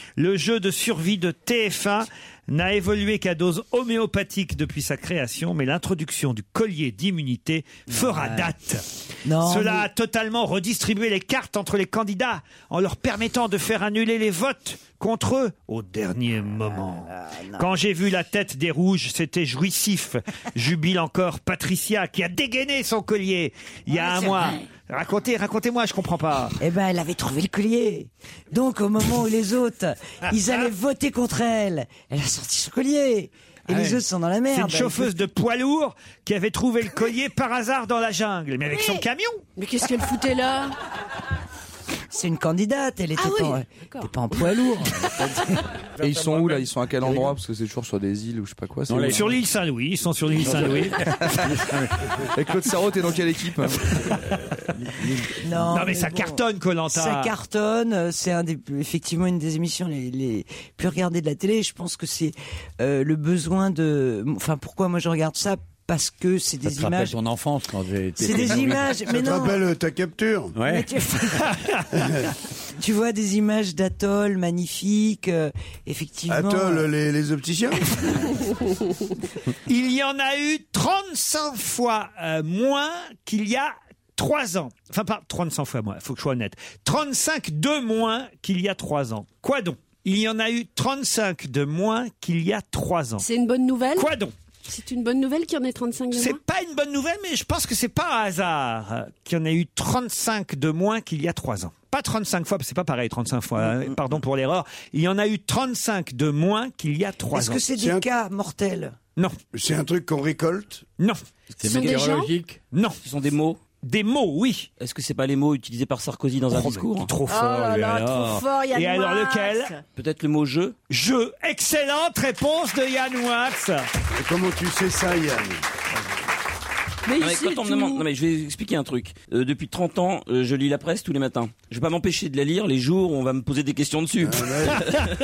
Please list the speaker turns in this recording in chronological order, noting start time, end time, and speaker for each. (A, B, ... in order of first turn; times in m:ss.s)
0:00.2-0:08.8 A
0:07.9-0:08.5 B
0:09.2-0:09.9 B
0:09.4-0:26.6 A
0:16.7-0:17.7 B
0:23.9-0:24.6 B
0:26.6-0:35.1 B
0:33.7-0:34.0 A
0:34.5-0:39.4 A
0:39.6-0:40.8 C
0:42.1-0:45.2 B
0:43.2-0:44.4 C
0:46.0-0:47.4 D
0:46.0-0:49.3 E
0:48.9-0:49.4 D
0:49.1-0:51.0 A
0:50.4-0:52.3 D
0:50.5-0:51.6 E
0:52.3-0:53.9 E
0:54.8-0:55.3 D
0:55.4-1:07.2 B
0:55.7-0:57.3 A
1:06.7-1:09.0 D
1:08.2-1:09.6 B
1:08.5-1:10.6 F
1:10.5-1:10.9 D
1:10.7-1:11.6 B
1:11.5-1:11.8 A
1:11.9-1:12.3 F
1:12.8-1:16.9 B
1:16.3-1:18.2 F
1:19.7-1:33.3 A
1:33.2-1:34.1 C
1:34.0-1:34.3 A
1:34.6-1:36.4 C
1:36.1-1:47.6 A
1:47.3-1:49.0 B
1:47.8-1:48.1 F
1:49.5-1:50.8 F
1:51.6-1:52.6 D
1:51.6-1:52.4 C
1:52.7-1:53.0 A
1:53.0-1:53.6 G
1:53.8-1:54.7 A
1:54.8-1:57.1 G
1:56.5-1:59.7 A
1:57.3-1:59.8 C
2:00.0-2:00.8 G
2:00.9-2:03.9 A
2:04.1-2:05.6 F
2:07.1-2:08.1 C
2:07.2-2:15.1 G
2:14.2-2:14.9 F